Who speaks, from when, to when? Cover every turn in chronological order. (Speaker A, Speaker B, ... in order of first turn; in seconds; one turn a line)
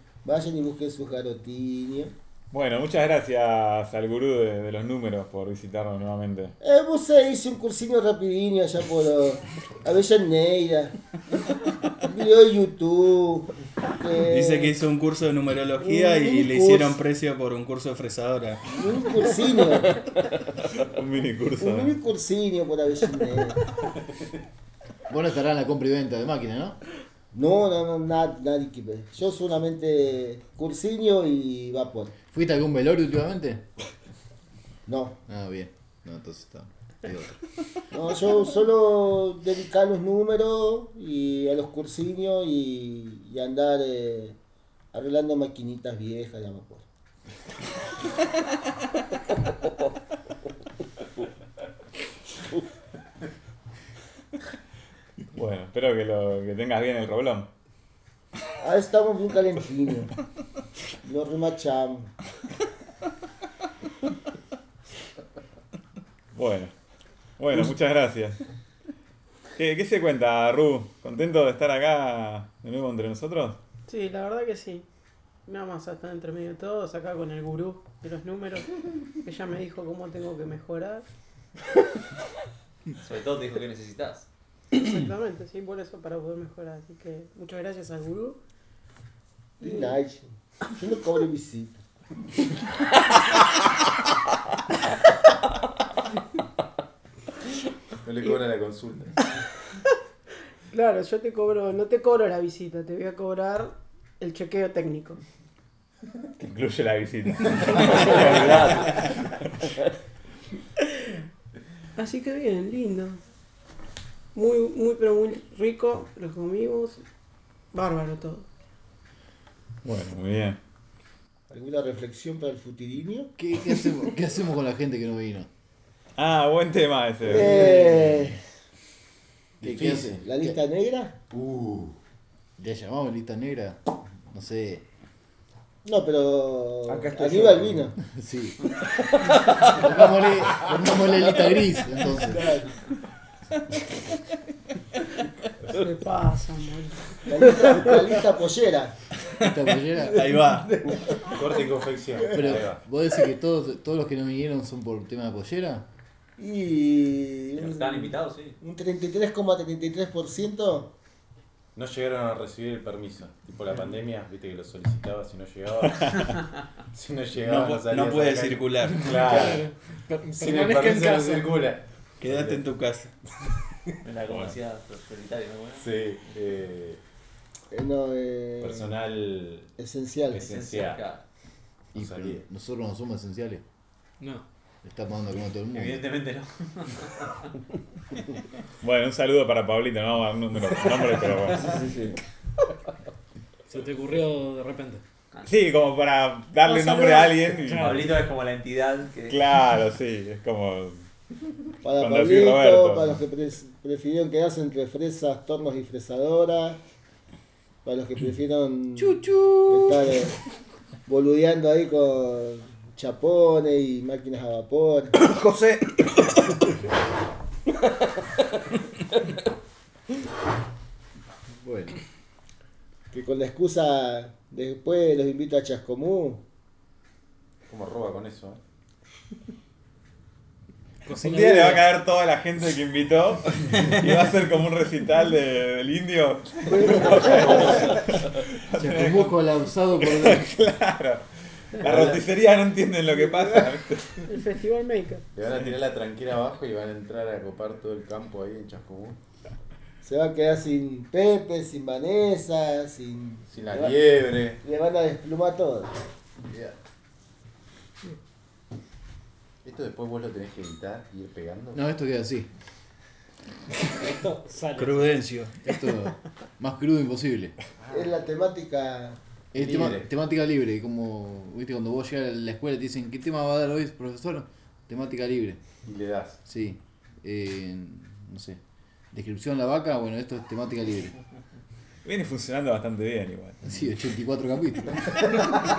Speaker A: 0.2-2.1
Speaker B: 2.5-6.5
Speaker A: 6.6-10.9
Speaker A: 12.0-14.7
Speaker C: 14.2-18.6
Speaker A: 15.8-17.0
Speaker A: 18.7-20.0
Speaker B: 20.8-21.9
Speaker A: 21.6-23.6
Speaker D: 25.1-26.8
Speaker A: 27.3-32.1
Speaker D: 32.3-33.6
Speaker A: 34.9-35.2
Speaker D: 35.3-37.4
Speaker A: 37.9-44.4
Speaker A: 44.9-46.9
Speaker B: 55.3-57.5
Speaker A: 58.6-60.1
Speaker A: 61.0-62.1
Speaker B: 66.3-66.7
Speaker B: 67.4-68.4
Speaker B: 69.6-73.6
Speaker E: 73.9-74.8
Speaker E: 75.5-81.0
Speaker F: 83.0-84.3
Speaker E: 84.7-88.4
Speaker E: 89.6-89.9
Speaker A: 89.6-91.8
Speaker G: 98.0-99.1
Speaker E: 100.7-105.2
Speaker B: 106.4-109.0
Speaker H: 107.8-108.9
Speaker E: 112.0-113.2
Speaker E: 114.3-117.0
Speaker E: 117.7-118.5
Speaker B: 119.8-120.6
Speaker A: 121.5-123.3
Speaker D: 123.4-125.5
Speaker B: 126.2-127.8
Speaker A: 127.3-128.4
Speaker D: 129.6-130.5
Speaker G: 129.6-130.1
Speaker A: 130.1-131.2
Speaker G: 131.3-131.9
Speaker D: 132.6-134.8
Speaker A: 135.8-137.9
Speaker H: 136.9-137.9
Speaker D: 138.0-138.6
Speaker H: 139.2-139.8
Speaker D: 139.7-142.4
Speaker E: 145.7-147.8
Speaker A: 147.2-148.9
Speaker D: 149.4-150.4
Speaker C: 150.1-150.8
Speaker G: 151.1-152.8
Speaker D: 152.3-155.8
Speaker A: 156.4-160.9
Speaker F: 157.6-158.6
Speaker G: 161.7-166.1
Speaker G: 166.9-169.7
Speaker C: 167.4-169.3
Speaker I: 169.1-171.6
Speaker G: 170.2-172.6
Speaker C: 172.2-173.1
Speaker F: 174.0-175.9
Speaker G: 175.7-177.0
Speaker A: 177.7-178.9
Speaker G: 178.6-179.7
Speaker A: 179.8-180.5
Speaker G: 180.3-181.0
Speaker F: 180.4-181.2
Speaker D: 181.9-183.6
Speaker G: 181.9-182.4
Speaker I: 184.2-184.4
Speaker D: 184.8-186.0
Speaker F: 185.7-187.5
Speaker B: 188.8-191.8
Speaker H: 191.6-192.2
Speaker I: 193.7-195.0
Speaker B: 195.4-198.1
Speaker E: 196.7-197.3
Speaker I: 197.5-198.1
Speaker F: 197.7-199.4
Speaker B: 199.3-201.1
Speaker A: 201.8-206.8
Speaker B: 202.0-203.2
Speaker A: 207.8-210.3
Speaker H: 209.0-209.9
Speaker A: 211.1-215.1
Speaker H: 215.1-216.2
Speaker D: 221.6-222.0
Speaker A: 223.1-226.4
Speaker G: 227.7-228.6
Speaker I: 231.1-231.9
Speaker B: 231.2-244.2
Speaker A: 236.7-237.8
Speaker D: 238.8-240.5
Speaker E: 244.3-245.2
Speaker G: 245.3-249.2
Speaker B: 245.4-245.7
Speaker A: 250.0-255.9
Speaker G: 253.5-254.6
Speaker G: 256.5-256.7
Speaker G: 259.6-261.8
Speaker D: 261.7-262.5
Speaker I: 263.9-265.3
Speaker C: 264.8-265.5
Speaker D: 265.6-267.5
Speaker G: 267.8-268.1
Speaker A: 267.9-269.2
Speaker D: 269.5-275.6
Speaker G: 269.5-270.1
Speaker G: 275.8-276.4
Speaker D: 276.4-278.6
Speaker D: 279.1-281.1
Speaker B: 282.0-283.6
Speaker D: 283.6-285.1